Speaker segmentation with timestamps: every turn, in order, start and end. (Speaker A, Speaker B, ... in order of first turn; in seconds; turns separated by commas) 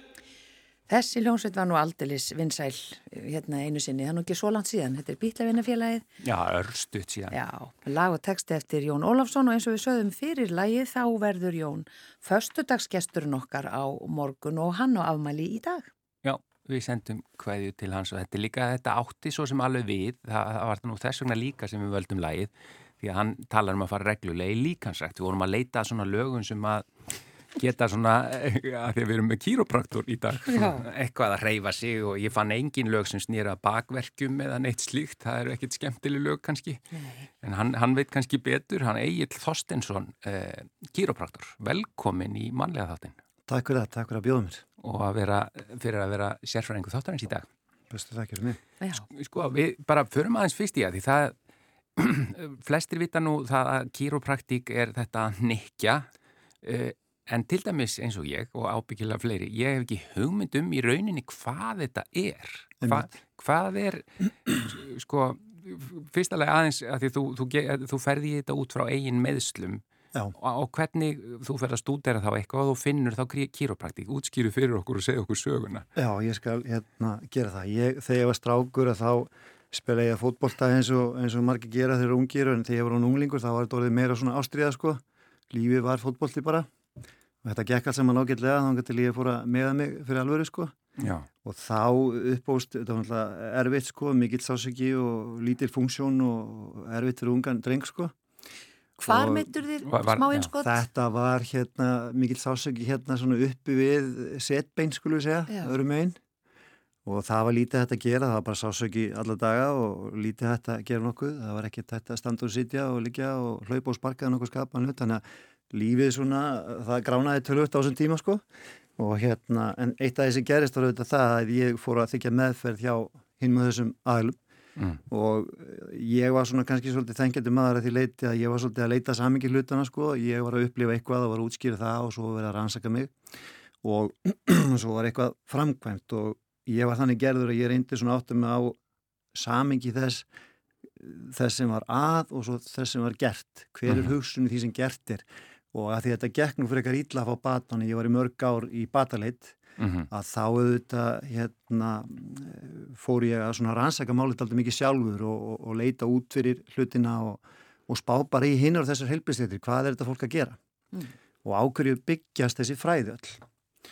Speaker A: 0.9-6.0, Speaker B: 6.2-7.3, Speaker A: 7.3-15.9, Speaker B: 16.2-36.8, Speaker A: 30.5-30.8, Speaker A: 36.9-37.2, Speaker B: 37.4-43.1, Speaker C: 43.5-44.6, Speaker B: 44.8-47.5, Speaker C: 47.9-48.6, Speaker A: 48.8-49.0, Speaker B: 49.1-51.3, Speaker B: 52.0-56.1, Speaker B: 56.6-69.8, Speaker C: 62.8-63.1, Speaker B: 70.3-75.9, Speaker C: 76.0-86.7, Speaker C: 87.4-90.8, Speaker B: 91.0-91.3, Speaker C: 91.4-98.1, Speaker A: 99.0-100.8, Speaker C: 99.0-99.5, Speaker B: 99.9-100.5, Speaker C: 100.6-106.2, Speaker C: 107.0-118.4, Speaker C: 119.0-124.4, Speaker C: 125.1-133.1, Speaker C: 133.8-138.8, Speaker C: 139.3-140.3, Speaker C: 140.9-149.6, Speaker B: 143.9-144.1, Speaker B: 149.8-150.1, Speaker C: 150.1-160.6, Speaker C: 161.4-163.4